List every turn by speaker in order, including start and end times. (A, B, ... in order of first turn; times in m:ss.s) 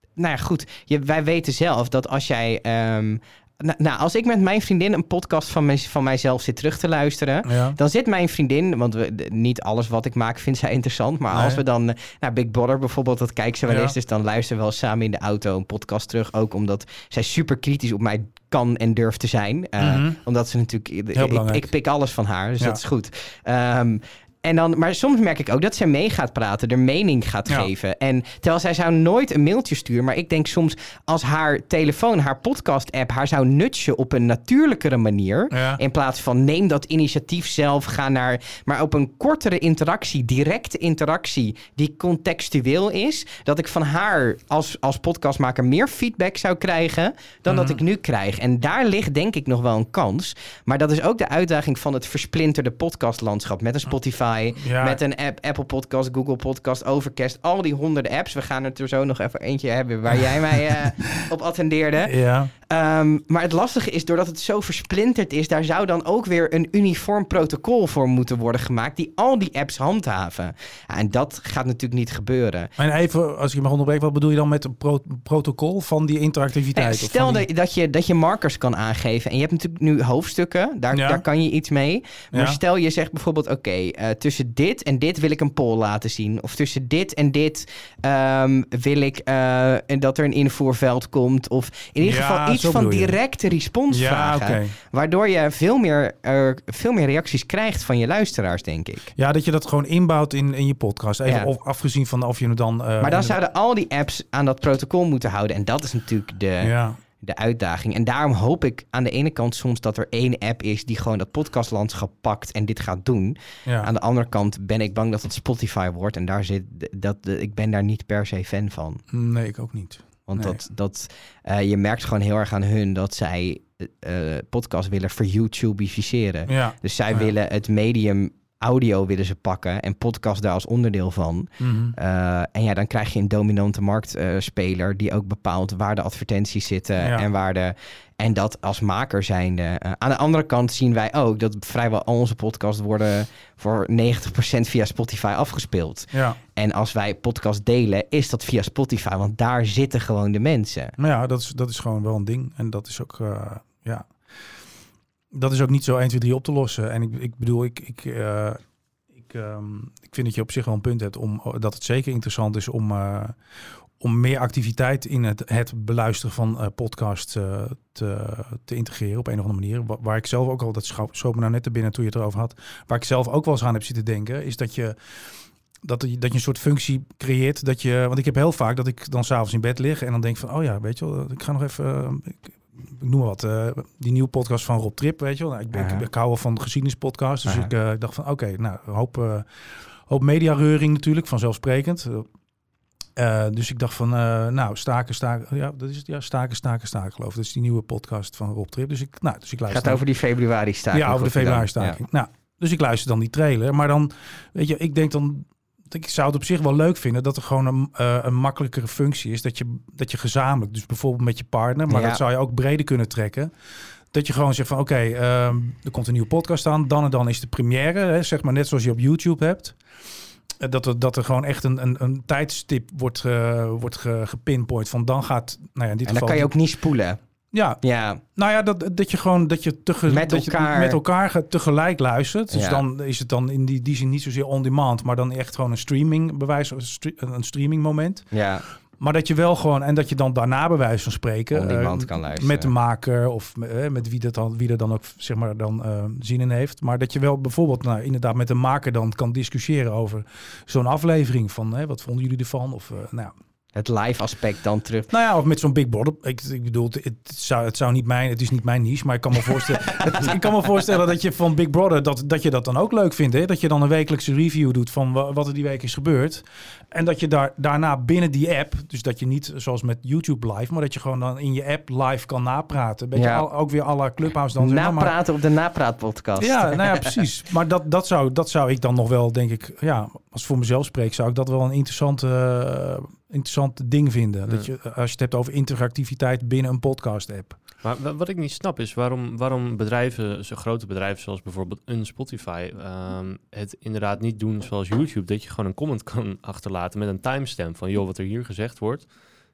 0:00.2-1:12.7 A
0:07.4-0:07.8 B
0:11.3-0:11.6 B
0:13.7-0:14.0 B
0:19.8-0:20.2 B
0:21.1-0:21.7 B
0:35.5-0:35.8 B
0:47.5-0:47.8 B
0:54.6-0:55.0 B
1:00.7-1:01.2 B
1:02.0-1:02.5 B
1:12.8-1:17.4 B
1:16.7-1:39.1 A
1:20.9-1:21.2 B
1:22.3-1:22.6 B
1:32.0-1:33.2 B
1:33.9-1:34.7 B
1:39.1-1:43.4 B
1:43.0-1:59.0 A
1:46.6-1:47.0 B
1:59.1-2:00.6 B
2:00.3-2:30.9 A
2:06.5-2:07.3 B
2:11.6-2:12.0 B
2:26.1-2:26.4 B
2:31.0-2:34.1 B
2:35.3-2:38.6 B
2:39.1-2:43.3 B
2:44.0-2:54.9 B
2:55.8-3:09.4 B
3:05.7-3:06.0 A
3:10.1-3:12.3 B
3:13.2-3:20.0 B
3:19.7-3:22.0 A
3:20.9-3:33.5 B
3:31.9-3:32.2 A
3:34.1-3:39.8 B
3:40.6-3:46.5 B
3:46.0-3:47.2 A
3:47.5-3:47.8 B
3:47.8-3:48.2 A
3:48.3-3:58.2 B
3:50.1-3:51.0 A
3:52.5-3:52.8 A
3:58.3-3:58.6 A
3:59.0-4:13.3 B
4:01.5-4:02.7 A
4:13.7-4:15.1 A
4:15.1-4:35.1 B
4:33.2-4:33.4 A
4:34.6-4:37.1 A
4:36.4-4:47.6 B
4:47.8-4:59.1 C